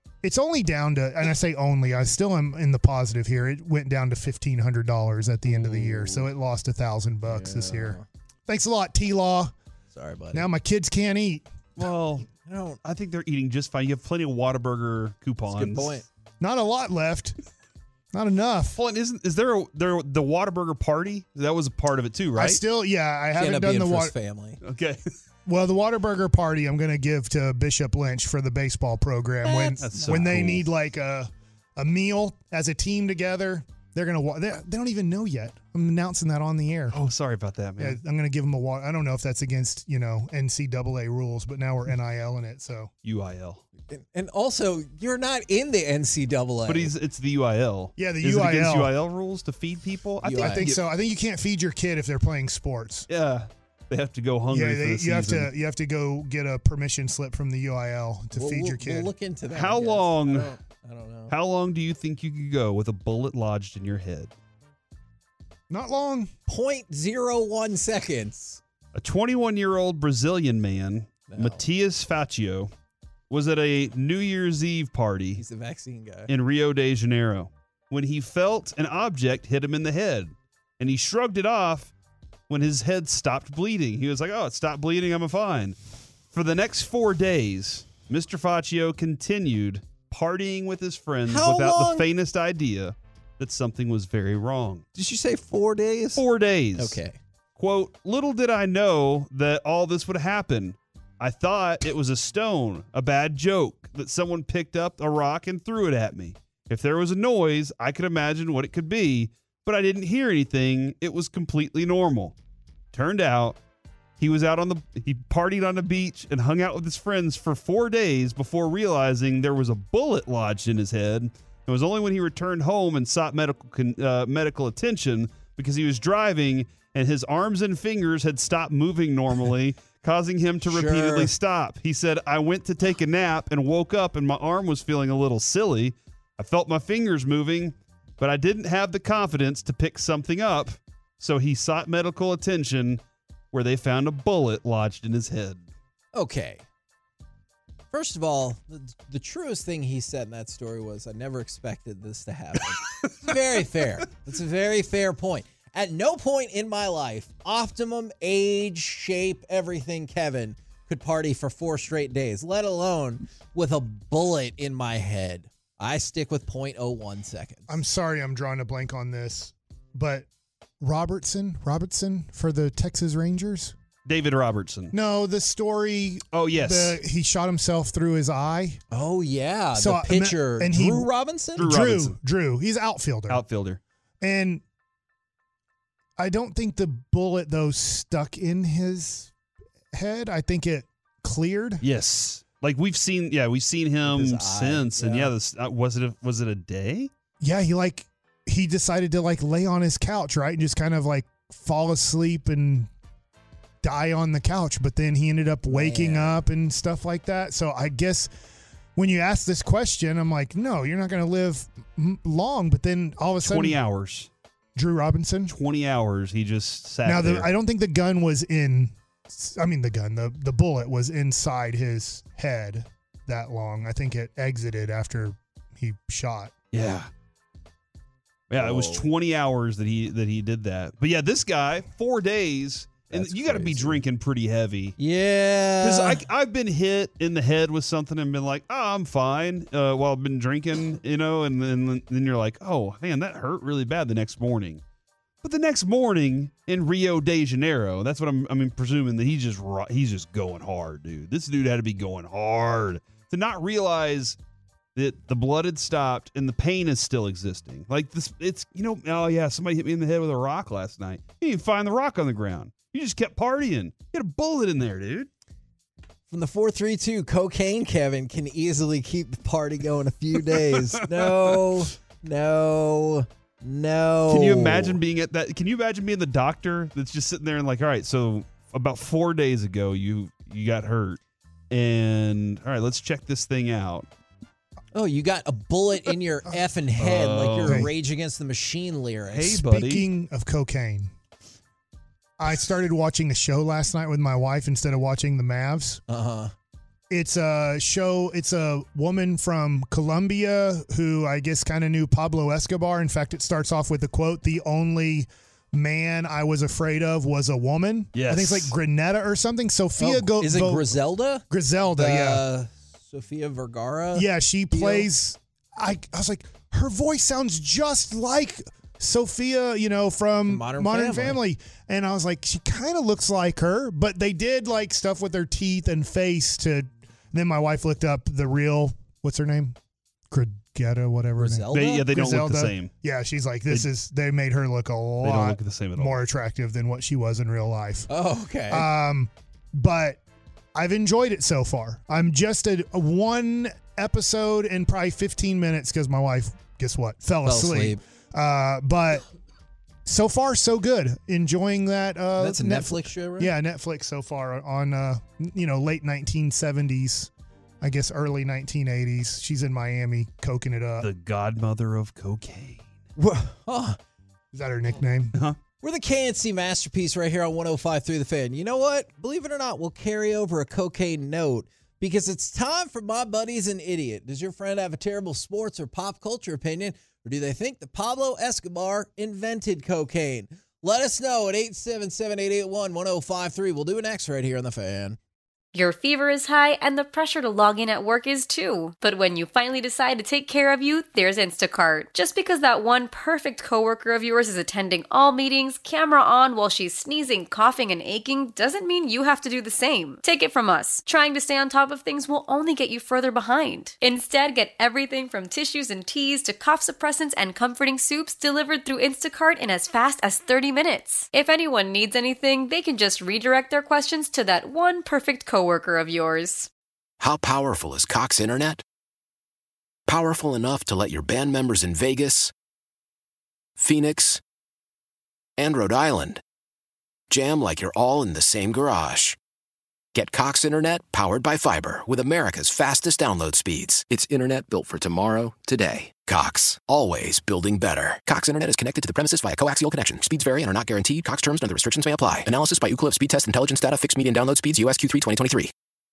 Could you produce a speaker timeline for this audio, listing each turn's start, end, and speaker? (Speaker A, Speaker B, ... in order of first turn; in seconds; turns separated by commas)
Speaker A: 0.2-9.5, Speaker B: 5.5-6.3, Speaker B: 7.2-8.1, Speaker B: 9.9-10.5, Speaker A: 10.3-11.5, Speaker C: 11.8-12.3, Speaker B: 12.4-12.8, Speaker C: 12.8-16.0, Speaker B: 15.5-16.1, Speaker A: 16.4-17.3, Speaker A: 18.1-18.8, Speaker C: 18.8-22.6, Speaker A: 22.4-24.1, Speaker B: 23.4-24.6, Speaker C: 24.6-25.0, Speaker A: 25.4-37.0, Speaker B: 29.4-30.2, Speaker C: 29.8-30.7, Speaker C: 36.9-38.0, Speaker A: 37.8-42.9, Speaker C: 43.0-43.6, Speaker B: 43.9-46.9, Speaker C: 46.7-50.8, Speaker A: 48.0-48.9, Speaker B: 50.2-50.7, Speaker A: 50.3-53.1, Speaker C: 53.1-55.5, Speaker A: 54.5-59.1, Speaker B: 58.3-61.3, Speaker C: 59.5-60.5, Speaker C: 61.3-64.3, Speaker A: 65.7-66.3, Speaker B: 66.5-68.6, Speaker C: 68.9-72.7, Speaker B: 71.3-71.7, Speaker C: 73.3-75.4, Speaker B: 75.3-76.3, Speaker C: 76.3-81.9, Speaker C: 82.5-85.8, Speaker C: 86.3-94.8, Speaker B: 91.2-92.1, Speaker B: 94.9-96.2, Speaker C: 96.2-97.0, Speaker B: 96.8-97.2, Speaker C: 97.5-112.4, Speaker C: 112.9-113.6, Speaker C: 114.2-145.7, Speaker B: 130.7-131.3, Speaker B: 146.1-146.6, Speaker B: 147.9-167.7, Speaker A: 167.7-170.3, Speaker A: 170.8-173.7, Speaker C: 174.1-174.9, Speaker A: 174.9-178.8, Speaker C: 176.3-177.0, Speaker B: 178.9-181.7, Speaker A: 179.7-183.4, Speaker C: 181.6-182.2, Speaker C: 183.3-183.8, Speaker A: 184.2-184.6, Speaker A: 186.2-189.3, Speaker A: 189.9-191.8, Speaker C: 191.8-197.1, Speaker B: 194.0-195.3, Speaker A: 197.4-202.9, Speaker A: 203.8-208.3, Speaker B: 205.7-206.4, Speaker A: 208.9-213.8, Speaker C: 213.4-214.3, Speaker A: 214.7-215.5, Speaker C: 215.5-217.5, Speaker A: 217.0-226.5, Speaker C: 226.7-227.1, Speaker C: 228.5-234.9, Speaker B: 228.6-229.1, Speaker B: 233.1-234.0, Speaker B: 235.0-236.2, Speaker C: 235.8-244.8, Speaker C: 245.4-254.4, Speaker C: 254.9-265.3, Speaker B: 266.3-275.0, Speaker C: 274.3-281.2, Speaker C: 281.7-284.1, Speaker B: 284.9-289.6, Speaker C: 287.0-287.8, Speaker A: 287.6-287.9, Speaker C: 289.3-290.1, Speaker A: 289.4-291.1, Speaker A: 292.4-296.0, Speaker B: 296.1-296.5, Speaker A: 297.1-311.0, Speaker C: 308.1-308.7, Speaker B: 310.0-315.1, Speaker A: 311.5-312.4, Speaker A: 314.1-329.8, Speaker B: 320.5-321.4, Speaker A: 330.3-338.1, Speaker B: 331.4-332.1, Speaker C: 331.7-332.9, Speaker C: 335.2-336.2, Speaker B: 338.1-338.9, Speaker A: 338.7-340.2, Speaker A: 340.7-349.2, Speaker B: 347.4-348.0, Speaker A: 350.0-361.1, Speaker B: 352.4-353.5, Speaker C: 361.0-362.8, Speaker B: 363.2-364.0, Speaker A: 364.5-365.3, Speaker B: 365.8-385.2, Speaker D: 385.7-416.7, Speaker E: 417.2-418.8, Speaker E: 420.1-422.5, Speaker E: 423.8-424.4, Speaker E: 425.6-426.4, Speaker E: 427.3-429.4, Speaker E: 430.1-445.7